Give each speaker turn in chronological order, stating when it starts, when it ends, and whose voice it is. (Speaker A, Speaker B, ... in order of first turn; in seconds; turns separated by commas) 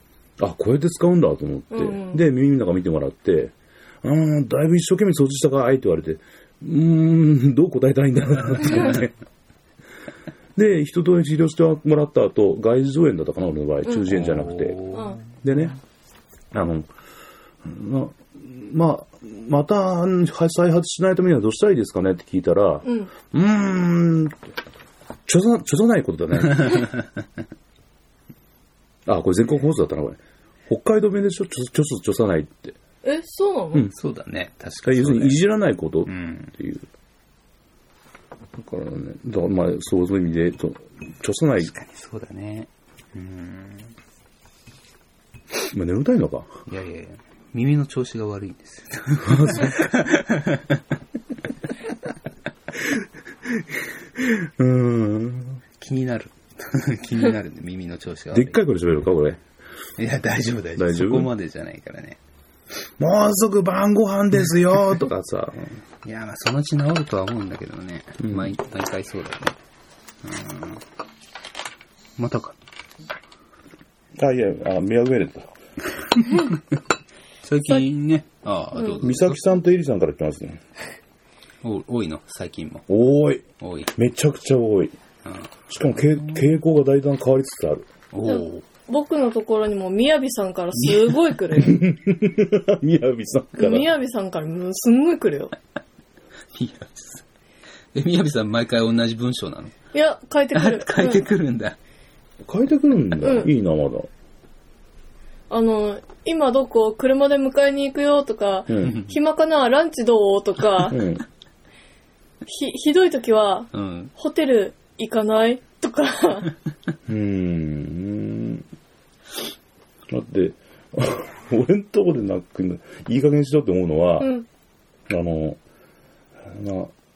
Speaker A: 0.4-9.1, Speaker B: 1.7-2.2, Speaker A: 10.6-15.8, Speaker C: 14.1-15.2, Speaker B: 14.9-15.2, Speaker A: 16.5-16.9, Speaker A: 17.6-24.4, Speaker B: 22.8-23.1, Speaker A: 25.2-26.9, Speaker A: 29.1-32.8, Speaker B: 33.0-33.9, Speaker C: 33.9-35.5, Speaker A: 34.8-36.9, Speaker C: 36.1-36.5, Speaker A: 38.6-41.7, Speaker C: 41.6-43.9, Speaker A: 45.7-46.5, Speaker C: 46.7-50.8, Speaker A: 49.2-49.7, Speaker A: 52.9-55.6, Speaker C: 55.8-58.6, Speaker A: 58.3-59.4, Speaker C: 60.0-62.2, Speaker A: 60.8-61.3, Speaker A: 63.0-65.7, Speaker C: 66.0-69.6, Speaker A: 68.2-68.6, Speaker C: 70.2-70.8, Speaker C: 72.2-72.6, Speaker A: 74.2-75.5, Speaker C: 76.3-76.5, Speaker C: 77.4-79.4, Speaker A: 79.0-80.6, Speaker C: 81.6-82.8, Speaker A: 82.9-83.4, Speaker C: 83.6-83.9, Speaker A: 84.0-84.9, Speaker C: 85.2-85.5, Speaker A: 85.7-87.9, Speaker C: 88.1-88.6, Speaker B: 88.2-91.8, Speaker C: 90.8-91.4, Speaker A: 91.5-93.9, Speaker B: 93.6-95.5, Speaker C: 96.5-97.2, Speaker C: 97.9-99.7, Speaker B: 99.9-101.3, Speaker C: 100.5-101.8, Speaker A: 102.5-104.1, Speaker B: 103.2-103.5, Speaker B: 105.5-111.0, Speaker A: 108.7-109.0, Speaker C: 108.8-109.1, Speaker A: 110.9-111.2, Speaker B: 112.5-116.5, Speaker C: 113.7-114.1, Speaker A: 117.1-118.6, Speaker A: 120.1-124.3, Speaker B: 124.2-124.5, Speaker A: 125.1-125.6, Speaker A: 126.5-126.9